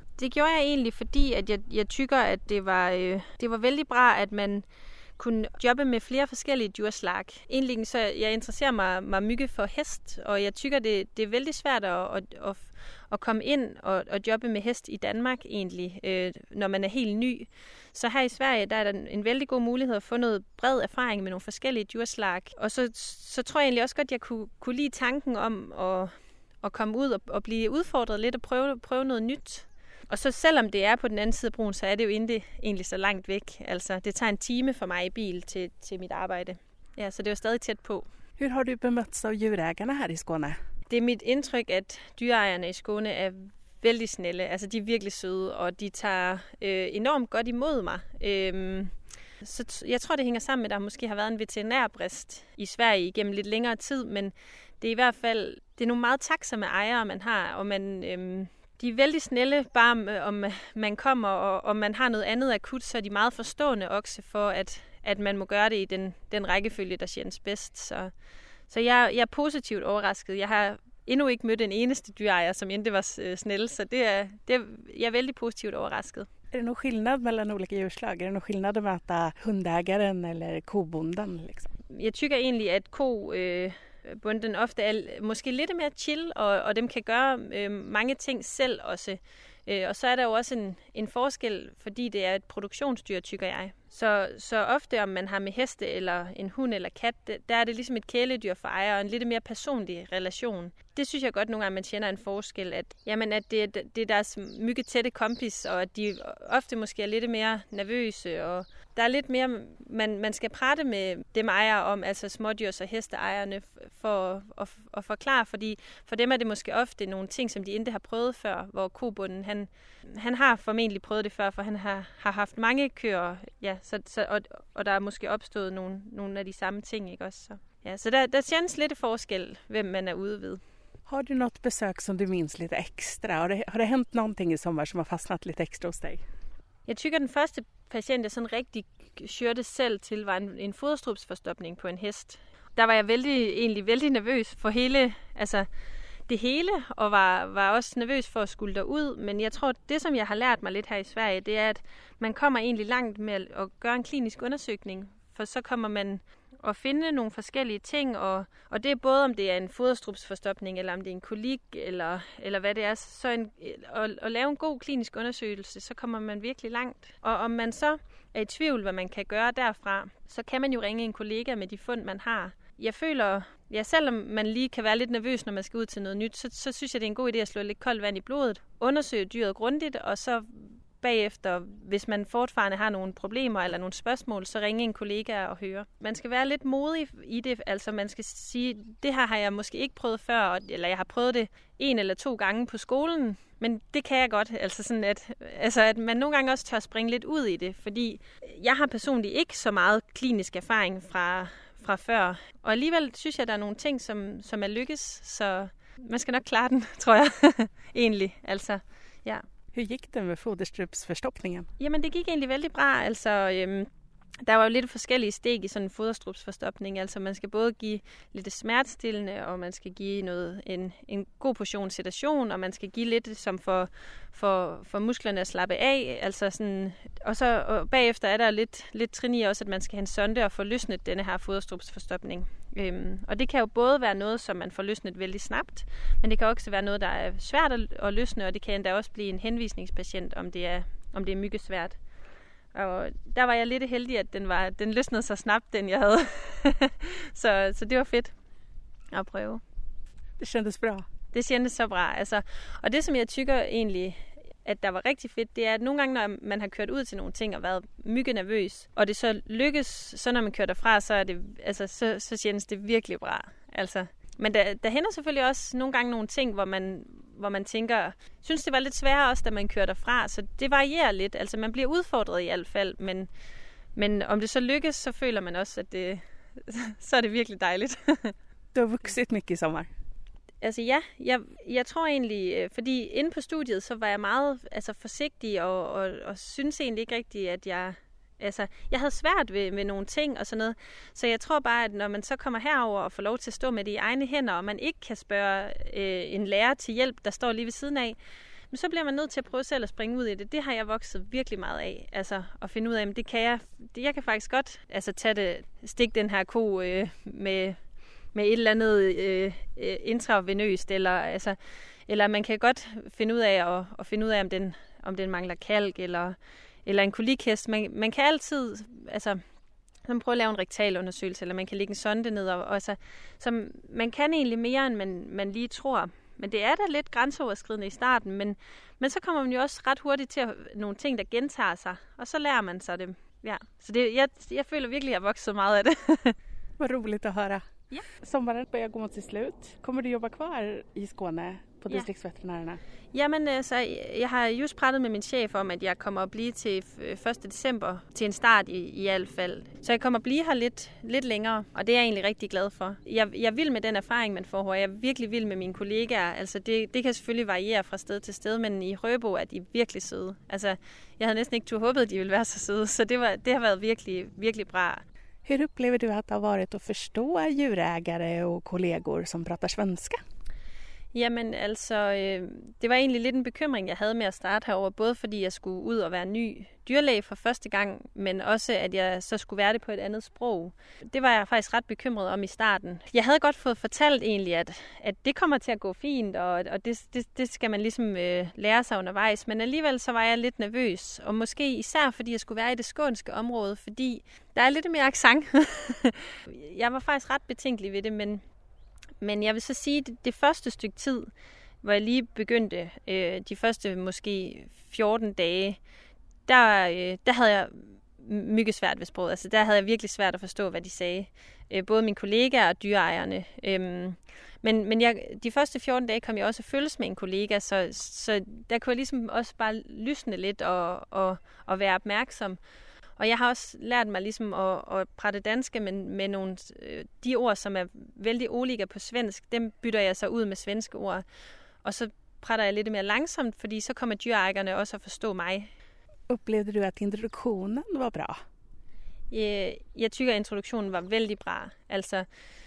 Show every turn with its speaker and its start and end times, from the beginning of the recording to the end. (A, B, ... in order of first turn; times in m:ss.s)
0:00.2-0:04.7 A
0:05.2-0:38.1 A
0:38.4-0:40.6 B
0:40.9-1:08.1 A
1:08.7-1:16.3 A
1:16.5-1:21.7 B
1:21.9-2:10.6 A
2:11.1-2:16.2 B
2:16.9-2:25.7 A
2:26.3-3:29.4 A
3:29.7-3:31.7 B
3:31.8-3:33.9 A
3:34.4-4:02.0 A
4:02.7-4:08.4 A
4:09.1-4:09.6 A
4:10.4-4:11.1 B
4:11.3-4:33.3 A
4:34.0-4:38.4 A
4:38.7-4:39.9 B
4:40.6-4:58.2 A
4:58.7-5:07.8 A
5:08.3-5:19.4 A
5:20.1-5:36.4 A
5:36.8-5:37.6 B
5:38.2-5:42.8 B
5:43.1-6:05.0 A
6:05.4-6:10.2 B
6:11.1-6:38.4 A
6:39.2-6:41.3 A
6:41.8-6:45.8 A
6:46.5-7:02.6 A
7:03.2-7:11.2 A
7:11.8-7:15.7 A
7:16.3-7:18.4 B
7:19.3-7:22.3 A